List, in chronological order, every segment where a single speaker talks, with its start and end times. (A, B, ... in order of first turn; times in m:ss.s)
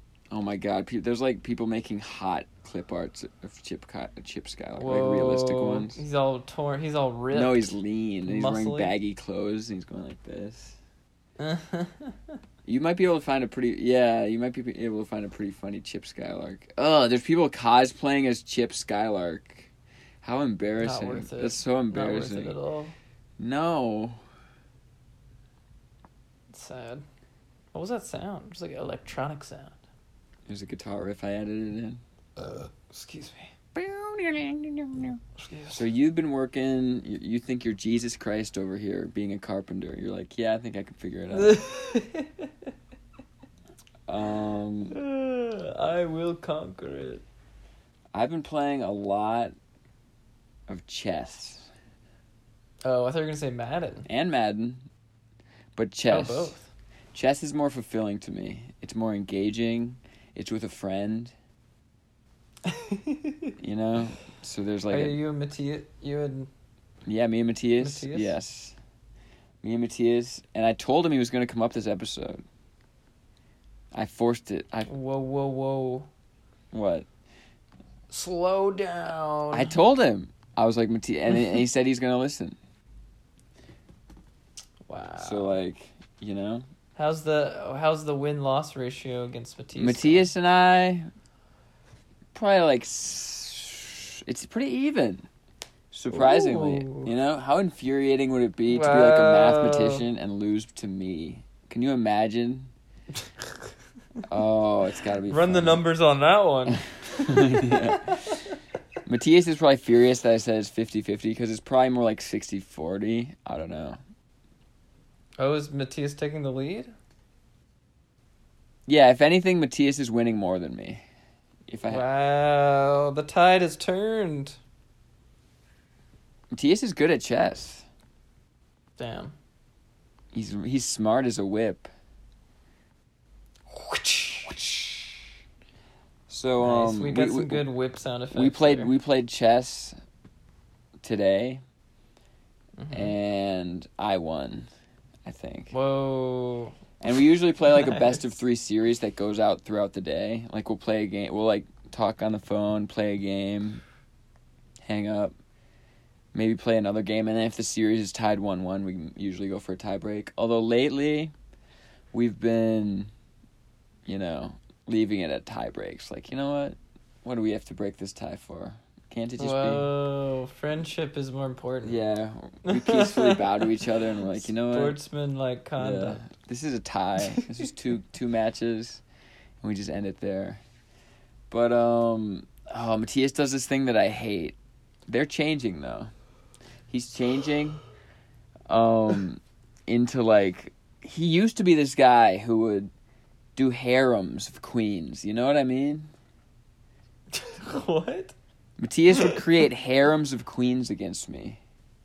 0:00.3-0:06.0 A
0:04.8-0:09.0 B
0:07.3-0:10.8 A
0:11.4-0:12.2 B
0:12.7-0:19.7 A
0:20.2-0:22.6 A
0:20.8-0:23.0 B
0:23.4-0:24.2 A
0:26.5-0:27.0 B
0:27.7-0:29.8 B
0:30.5-0:32.0 A
0:32.4-0:33.5 B
0:33.8-0:35.2 A
0:35.4-0:35.8 B
0:35.7-0:41.6 A
0:41.3-0:42.7 B
0:44.1-0:45.0 A
0:44.9-0:47.2 B
0:48.1-0:49.5 A
0:50.7-0:51.7 A
0:52.8-0:54.1 B
0:54.1-0:54.9 A
0:55.8-0:56.5 A
0:56.1-0:56.7 B
0:57.1-1:01.3 A
1:02.6-1:03.5 B
1:03.6-1:05.2 A
1:04.9-1:06.5 B
1:07.1-1:08.8 A
1:07.8-1:08.4 B
1:09.6-1:12.4 A
1:13.9-1:14.9 A
1:14.9-1:16.1 B
1:16.7-1:17.1 A
1:18.1-1:19.8 B
1:19.5-1:22.6 A
1:24.9-1:25.6 B
1:25.2-1:26.7 A
1:27.0-1:30.3 B
1:29.8-1:31.1 A
1:32.3-1:35.3 A
1:35.9-1:42.7 A
1:36.1-1:37.1 B
1:38.7-1:40.1 B
1:44.3-1:45.8 A
1:45.3-1:48.4 B
1:46.7-1:48.3 A
1:49.0-1:54.0 A
1:55.4-1:56.9 B
1:58.9-2:01.0 A
2:01.7-2:02.0 A
2:01.9-2:04.6 B
2:06.5-2:07.9 A
2:09.0-2:09.4 B
2:10.3-2:11.9 A
2:13.7-2:15.1 B
2:16.3-2:17.7 A
2:16.6-2:18.9 B
2:18.3-2:20.0 A
2:21.0-2:21.6 A
2:22.8-2:23.1 B
2:22.9-2:24.7 A
2:25.2-2:25.7 A
2:25.7-2:26.8 B
2:27.0-2:33.8 A
2:27.6-2:28.2 B
2:34.8-2:35.3 A
2:36.3-2:41.3 A
2:42.1-2:43.1 A
2:44.1-2:49.9 A
2:49.4-2:52.0 B
2:51.8-2:55.0 A
2:52.6-2:53.7 B
2:54.3-2:56.2 B
2:55.8-2:59.0 A
2:59.6-3:00.6 A
3:01.5-3:04.6 A
3:05.1-3:06.1 A
3:06.9-3:07.8 A
3:08.7-3:12.9 A
3:13.6-3:16.1 A
3:17.3-3:18.4 B
3:18.8-3:21.6 A
3:19.2-3:19.4 B